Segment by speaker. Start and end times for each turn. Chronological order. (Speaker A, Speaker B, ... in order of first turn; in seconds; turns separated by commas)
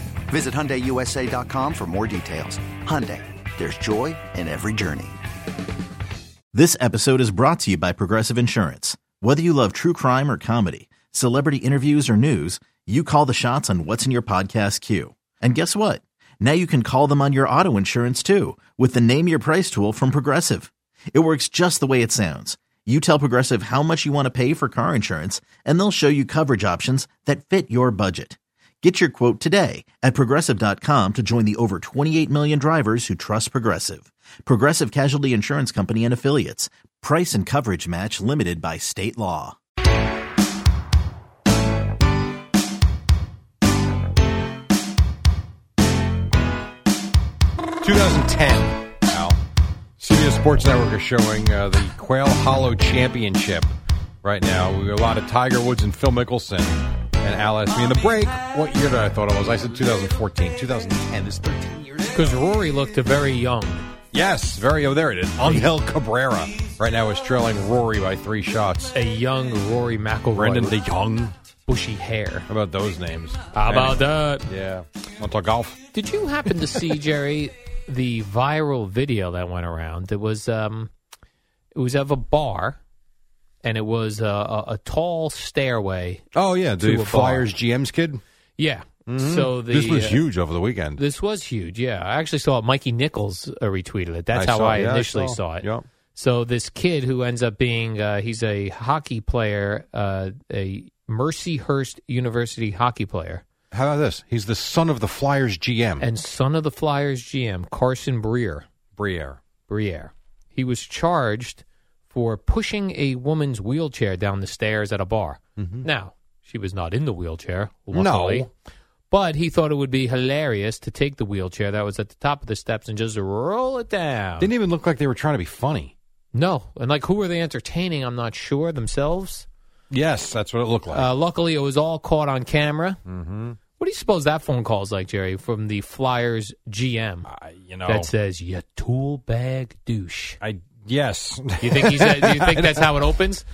Speaker A: 0.3-5.2, Speaker B: 6.5-39.5, Speaker C: 47.8-49.4, Speaker C: 50.0-53.7, Speaker C: 54.2-62.2, Speaker D: 62.1-63.9, Speaker C: 64.1-69.0, Speaker D: 65.4-65.7, Speaker D: 68.9-70.8, Speaker C: 70.3-71.3, Speaker D: 71.7-72.5, Speaker C: 72.5-75.8, Speaker D: 73.5-74.5, Speaker D: 75.9-80.9, Speaker D: 81.7-82.8, Speaker D: 83.6-86.2, Speaker C: 86.3-88.2, Speaker D: 86.8-87.5, Speaker D: 88.6-90.2, Speaker C: 89.1-91.0, Speaker D: 91.0-103.4, Speaker C: 94.3-95.8, Speaker C: 103.7-106.1, Speaker D: 106.0-108.7, Speaker C: 109.0-109.4, Speaker D: 109.7-118.5, Speaker C: 115.6-115.9, Speaker C: 117.9-118.5, Speaker D: 119.1-124.5, Speaker C: 124.4-125.9, Speaker D: 126.3-129.4, Speaker C: 129.9-131.1, Speaker D: 130.9-133.0, Speaker C: 133.1-133.6, Speaker D: 133.8-137.3, Speaker C: 137.2-138.1, Speaker D: 137.8-140.4, Speaker C: 140.4-142.9, Speaker D: 141.6-143.4